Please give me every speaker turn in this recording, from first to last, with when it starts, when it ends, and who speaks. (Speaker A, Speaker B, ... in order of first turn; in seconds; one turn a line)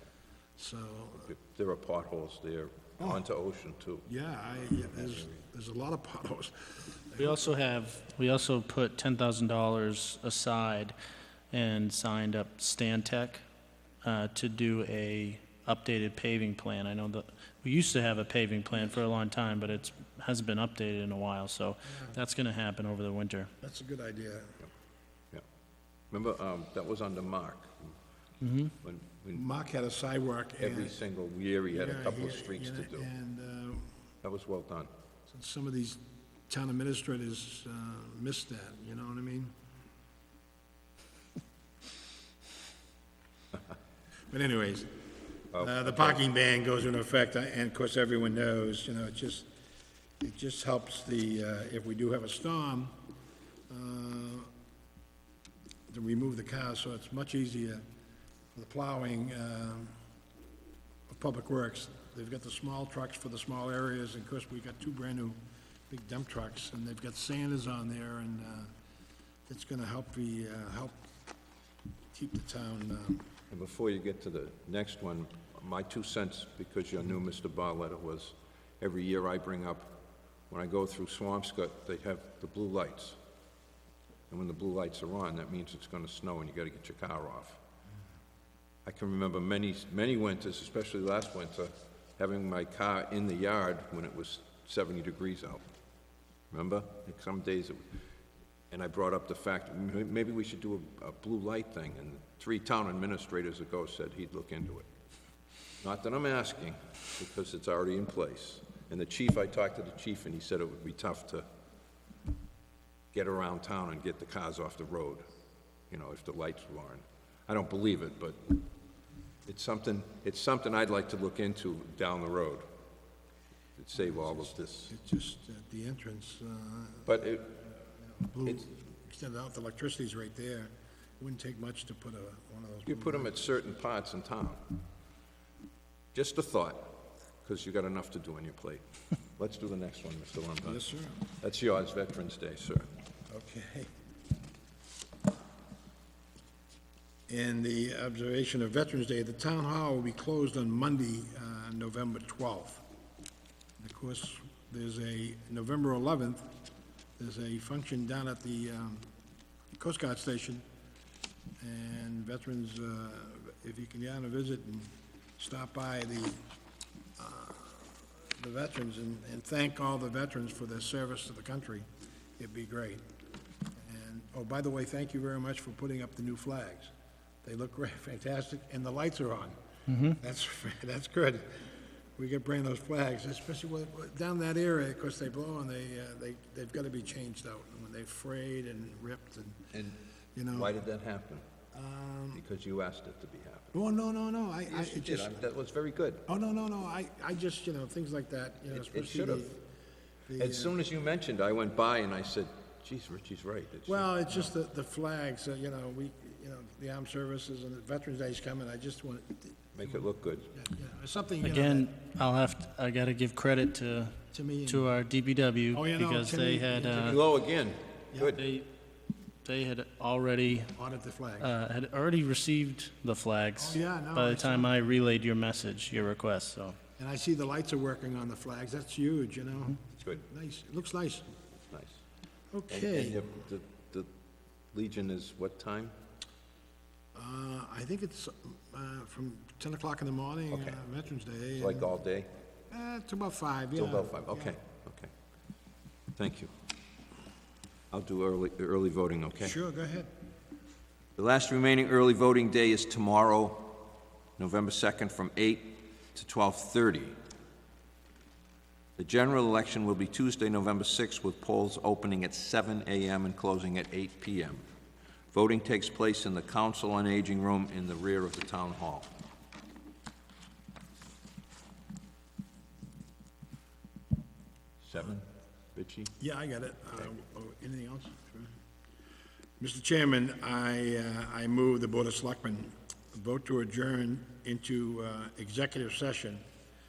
Speaker A: 0.6-1.3
Speaker B: 1.3-4.0
Speaker A: 4.0-7.5
Speaker C: 7.2-11.0
Speaker C: 11.5-13.4
Speaker C: 14.0-23.5
Speaker A: 21.9-22.2
Speaker A: 23.6-24.7
Speaker B: 26.1-27.9
Speaker C: 28.4-28.7
Speaker B: 28.8-29.4
Speaker A: 29.3-31.0
Speaker B: 30.6-33.1
Speaker A: 31.7-33.9
Speaker B: 34.2-34.9
Speaker A: 35.3-39.5
Speaker A: 44.3-45.0
Speaker B: 45.5-46.2
Speaker A: 45.5-49.5
Speaker A: 50.2-53.0
Speaker A: 53.7-54.5
Speaker A: 55.9-57.8
Speaker A: 58.5-60.0
Speaker A: 61.1-68.7
Speaker A: 69.5-71.0
Speaker A: 72.1-73.3
Speaker B: 73.5-79.9
Speaker B: 80.5-83.2
Speaker B: 84.3-87.6
Speaker B: 88.8-95.7
Speaker B: 96.5-97.8
Speaker B: 98.7-104.9
Speaker B: 105.8-111.4
Speaker B: 113.1-115.2
Speaker B: 115.9-118.6
Speaker B: 119.5-122.7
Speaker B: 123.8-124.9
Speaker A: 124.0-127.2
Speaker B: 127.0-127.6
Speaker A: 128.2-133.4
Speaker B: 132.9-134.7
Speaker B: 136.1-138.8
Speaker B: 139.4-142.9
Speaker A: 140.7-141.2
Speaker A: 143.3-143.9
Speaker A: 147.3-152.8
Speaker A: 153.8-156.5
Speaker A: 157.2-159.1
Speaker A: 159.8-160.6
Speaker A: 161.6-166.4
Speaker A: 167.2-171.9
Speaker A: 172.4-173.0
Speaker A: 173.8-176.9
Speaker A: 177.4-179.6
Speaker C: 179.9-180.2
Speaker A: 180.1-181.6
Speaker A: 182.2-189.7
Speaker B: 189.7-190.0
Speaker A: 190.3-190.7
Speaker B: 190.5-191.4
Speaker A: 191.7-192.4
Speaker B: 192.3-193.7
Speaker A: 193.7-195.5
Speaker B: 194.7-196.2
Speaker A: 196.2-199.6
Speaker B: 198.7-199.5
Speaker A: 200.3-200.8
Speaker B: 200.4-204.5
Speaker A: 203.9-210.0
Speaker B: 209.8-210.5
Speaker A: 210.5-211.9
Speaker C: 211.4-217.2
Speaker A: 214.3-214.9
Speaker A: 215.7-217.2
Speaker B: 216.9-218.4
Speaker C: 218.4-218.7
Speaker C: 219.4-220.7
Speaker A: 220.8-221.5
Speaker C: 221.4-226.8
Speaker A: 223.6-224.7
Speaker A: 227.0-231.3
Speaker B: 231.7-232.0
Speaker A: 232.5-233.2
Speaker B: 232.7-234.1
Speaker B: 234.7-235.9
Speaker A: 237.2-241.9
Speaker B: 240.5-240.8
Speaker B: 241.6-242.3
Speaker A: 242.7-244.6
Speaker B: 243.8-245.1
Speaker B: 246.2-246.5
Speaker B: 247.9-249.6
Speaker A: 249.4-250.1
Speaker B: 251.2-257.2
Speaker B: 259.0-264.6
Speaker B: 265.3-269.1
Speaker B: 274.8-276.1
Speaker A: 276.2-278.6
Speaker A: 279.6-286.4